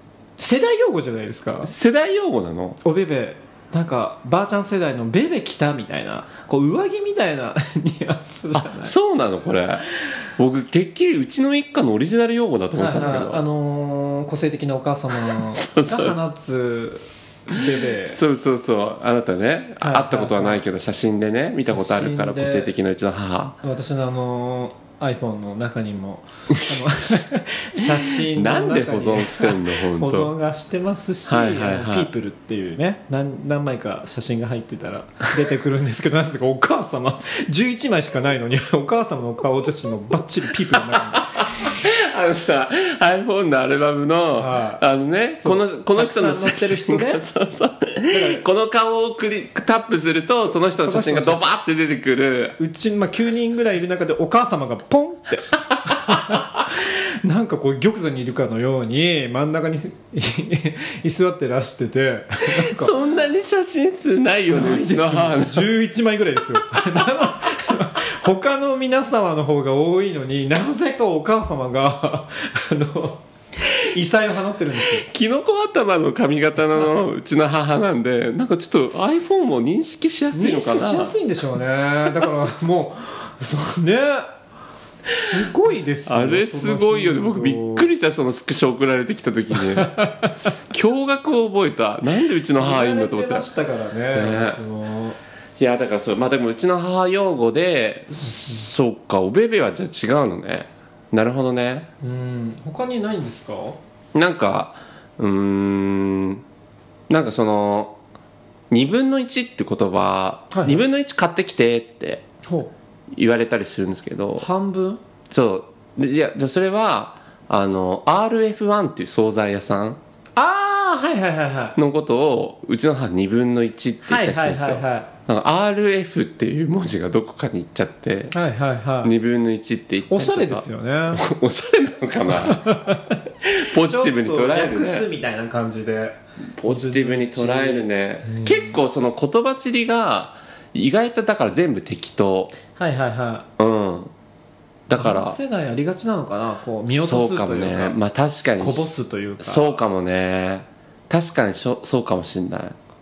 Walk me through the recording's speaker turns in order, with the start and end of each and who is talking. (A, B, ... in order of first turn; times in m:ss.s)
0:00.4-0:01.7 A
0:01.7-0:02.8 B
0:02.8-0:08.9 A
0:08.5-0:09.8 B
0:10.4-0:13.4 B
0:12.7-0:18.2 A
0:15.1-0:16.2 B
0:17.6-0:23.6 B
0:19.8-0:20.6 A
0:21.7-0:22.7 A
0:23.6-0:41.4 A
0:27.8-0:30.3 B
0:31.3-0:32.1 B
0:40.9-0:52.6 B
0:44.4-0:44.8 A
0:45.4-0:47.2 A
0:48.1-0:48.4 A
0:50.8-0:51.5 A
0:52.6-1:03.0 A
1:02.5-1:05.7 B
1:04.5-1:13.2 A
1:13.7-1:15.0 A
1:14.8-1:21.1 B
1:20.3-1:24.3 A
1:25.1-1:27.8 A
1:26.1-1:29.9 B
1:29.7-1:30.3 A
1:30.7-1:33.5 B
1:32.6-1:35.2 A
1:34.1-1:34.6 B
1:35.6-1:41.9 B
1:42.0-1:43.8 A
1:44.1-1:46.4 B
1:47.1-1:48.0 B
1:48.7-1:52.2 B
1:50.5-1:50.8 A
1:52.4-1:52.7 A
1:53.1-1:54.5 B
1:54.4-1:55.0 A
1:55.3-2:00.0 B
2:00.4-2:01.8 A
2:01.8-2:08.3 B
2:04.0-2:05.1 A
2:08.3-2:09.1 A
2:09.0-2:12.8 B
2:10.1-2:11.2 A
2:12.3-2:13.2 A
2:13.4-2:15.1 B
2:13.8-2:18.7 A
2:16.6-2:22.5 B
2:22.7-2:23.5 A
2:23.6-2:24.1 B
2:24.9-2:25.4 B
2:24.9-2:28.0 A
2:26.9-2:28.9 B
2:28.6-2:29.7 A
2:29.4-2:32.8 B